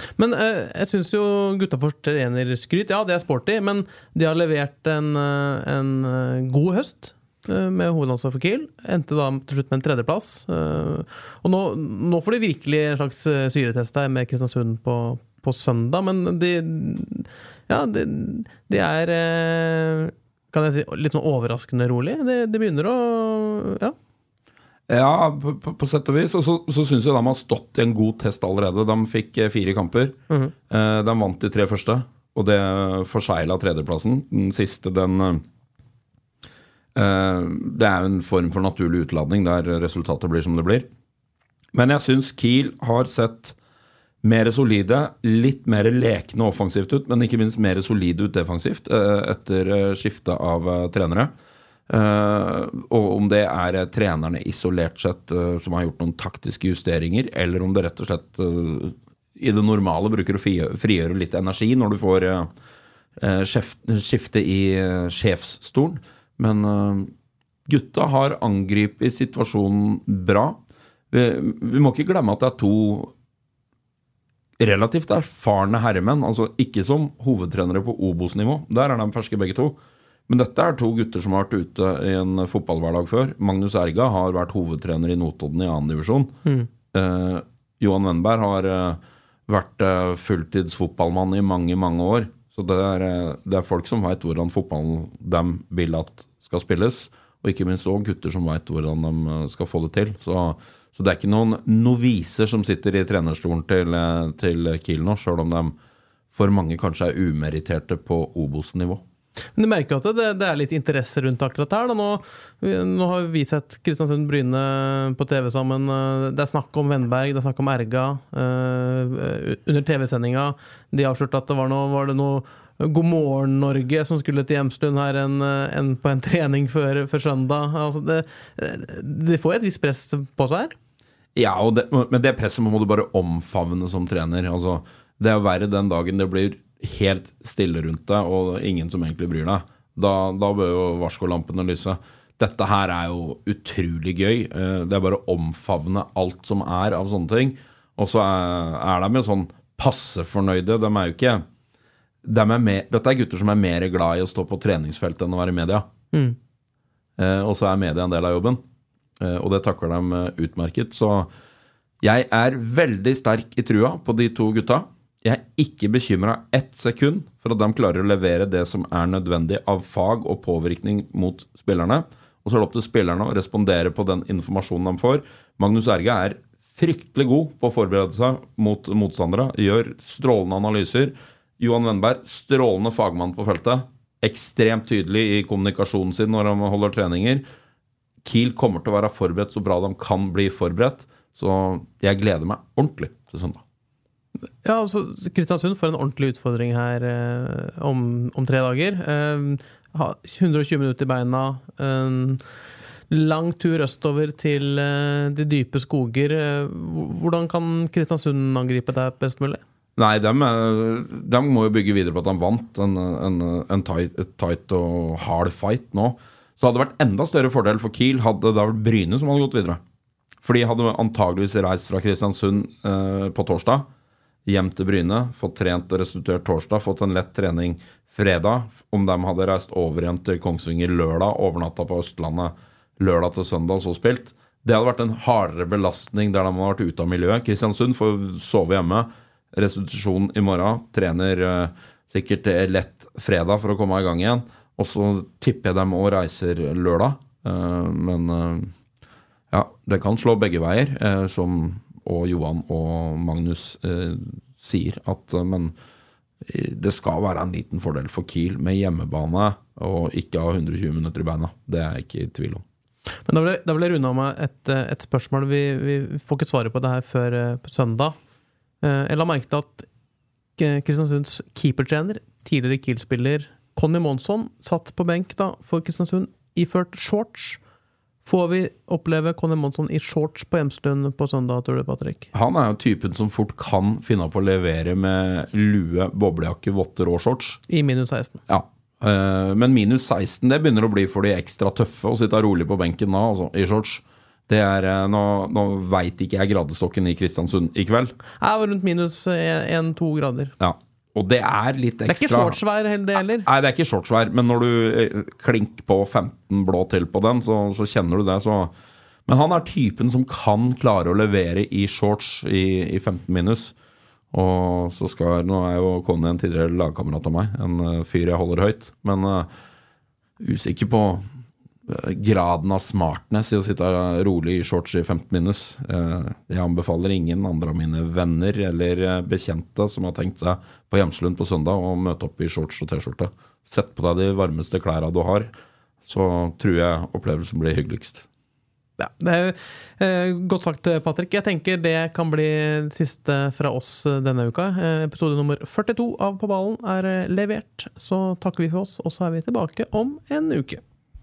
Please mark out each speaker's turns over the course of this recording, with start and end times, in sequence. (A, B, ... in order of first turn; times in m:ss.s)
0:00.2-0:24.0 A
0:24.9-0:30.2 B
0:30.7-0:35.4 B
0:37.0-0:40.9 B
0:41.7-0:43.6 B
0:44.2-0:51.3 B
0:51.9-1:02.5 B
1:03.2-1:07.1 B
1:07.7-1:10.6 B
1:11.1-1:13.1 B
1:14.6-1:19.8 B
1:20.3-1:26.4 B
1:26.9-1:45.8 B
1:46.3-1:49.0 B
1:49.6-2:10.8 A
2:11.4-2:31.4 B
2:32.2-2:35.9 B
2:37.2-2:38.6 B
2:39.2-2:41.3 B
2:42.0-3:07.4 B
3:08.2-3:13.6 B
3:14.6-3:22.4 A
3:23.1-3:29.6 A
3:30.0-3:39.8 B
3:40.4-3:43.8 B
3:44.5-4:08.7 B
4:09.5-4:15.7 B
4:16.5-4:22.6 B
4:23.3-4:28.2 A
4:28.8-4:29.9 A
4:30.6-4:37.6 A
4:38.2-4:42.3 A
4:42.3-4:47.6 B
4:47.7-4:48.4 A
4:48.5-4:58.1 B
4:58.4-5:00.5 A
5:00.6-5:02.6 B
5:02.1-5:03.5 A
5:03.4-5:08.7 B
5:09.3-5:13.8 B
5:14.3-5:19.5 B
5:20.4-5:21.2 B
5:21.9-5:35.5 B
5:36.0-5:38.2 B
5:39.0-5:50.8 A